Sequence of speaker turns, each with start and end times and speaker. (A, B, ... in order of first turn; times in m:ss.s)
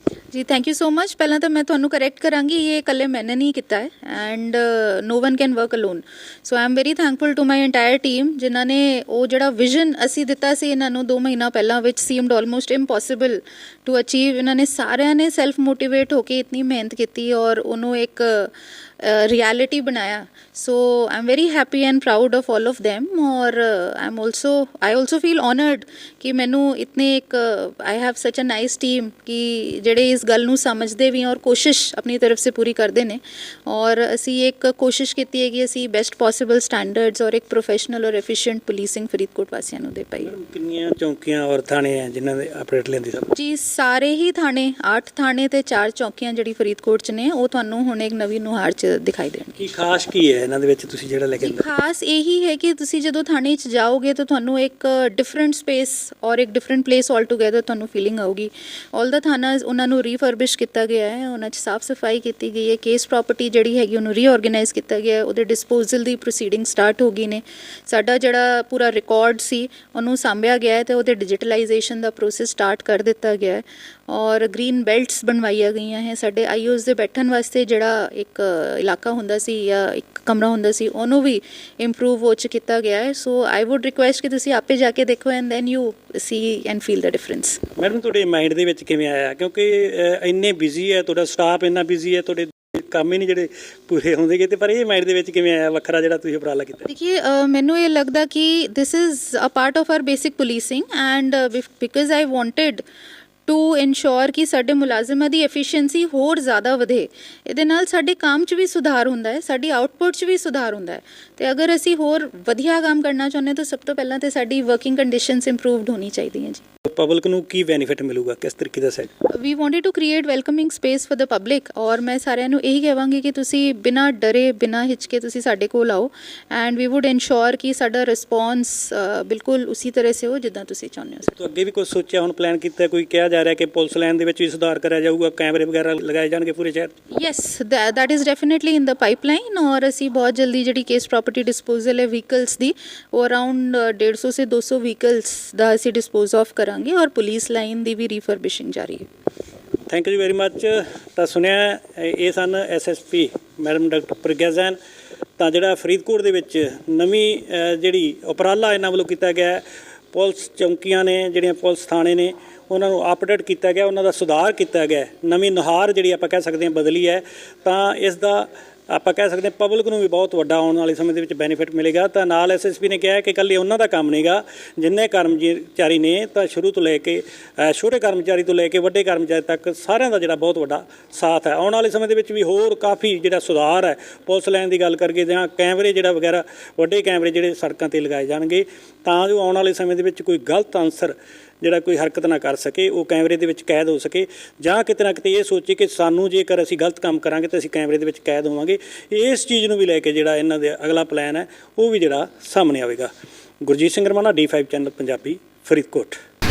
0:00.3-0:40.3 A
0:40.2-0:43.3 B
0:43.3-0:49.5 A
0:49.6-0:51.6 B
0:51.4-1:27.6 A
1:27.8-1:36.9 B
1:36.9-1:42.8 A
1:43.5-1:56.6 A
1:56.9-1:59.1 B
1:59.3-2:11.4 A
2:11.3-2:16.9 B
2:17.1-2:29.0 A
2:29.9-2:34.8 B
2:35.4-3:26.2 B